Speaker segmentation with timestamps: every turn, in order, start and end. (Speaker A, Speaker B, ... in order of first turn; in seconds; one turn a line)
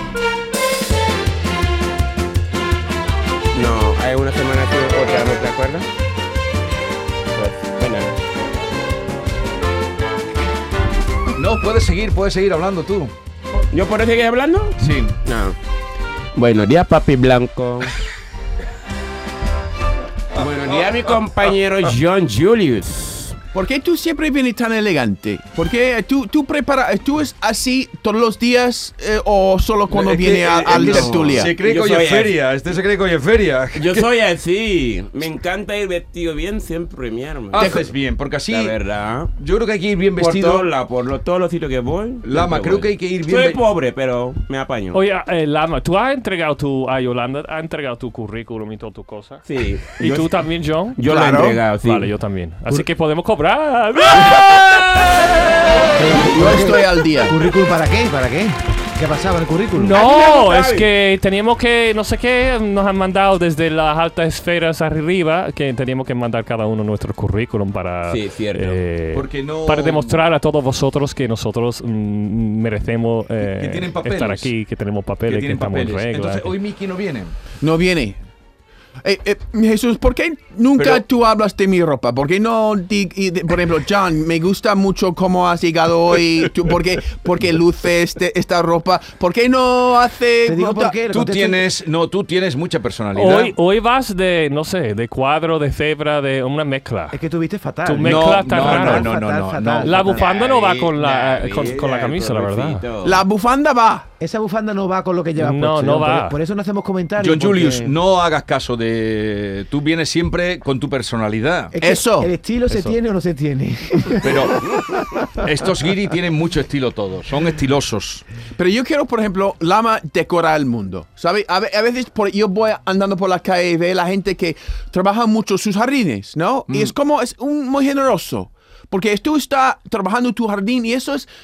Speaker A: 3.5-5.9
Speaker A: 7.3-8.1
Speaker B: 11.3-13.1
Speaker A: 13.7-15.6
Speaker B: 14.8-15.2
Speaker A: 16.4-17.9
Speaker A: 20.4-23.4
Speaker B: 20.4-21.1
Speaker C: 23.5-31.5
Speaker B: 29.9-34.0
Speaker A: 30.6-32.4
Speaker A: 33.7-37.9
Speaker B: 37.5-38.8
Speaker C: 37.6-37.8
Speaker A: 38.5-39.3
Speaker B: 39.4-40.7
Speaker A: 40.2-45.0
Speaker B: 42.2-43.6
Speaker D: 44.9-51.2
Speaker A: 49.5-50.4
Speaker A: 51.0-52.1
Speaker C: 51.1-51.6
Speaker D: 51.8-54.8
Speaker B: 54.3-54.9
Speaker E: 55.9-60.0
Speaker C: 56.2-57.4
Speaker D: 59.8-76.5
Speaker A: 60.0-60.9
Speaker A: 68.1-68.8
Speaker B: 69.1-70.2
Speaker B: 73.4-74.5
Speaker B: 75.2-77.3
Speaker C: 77.6-78.2
Speaker C: 79.0-91.0
Speaker B: 80.8-81.0
Speaker E: 90.5-91.6
Speaker B: 91.0-93.5
Speaker D: 93.1-97.2
Speaker E: 97.1-100.3
Speaker D: 97.8-99.1
Speaker B: 98.0-100.0
Speaker D: 99.8-102.8
Speaker A: 100.1-103.2
Speaker C: 103.0-104.1
Speaker E: 104.2-107.9
Speaker D: 105.4-106.4
Speaker B: 107.2-111.8
Speaker E: 111.8-115.5
Speaker C: 111.8-112.3
Speaker B: 114.2-114.8
Speaker B: 115.4-118.2
Speaker C: 118.5-131.3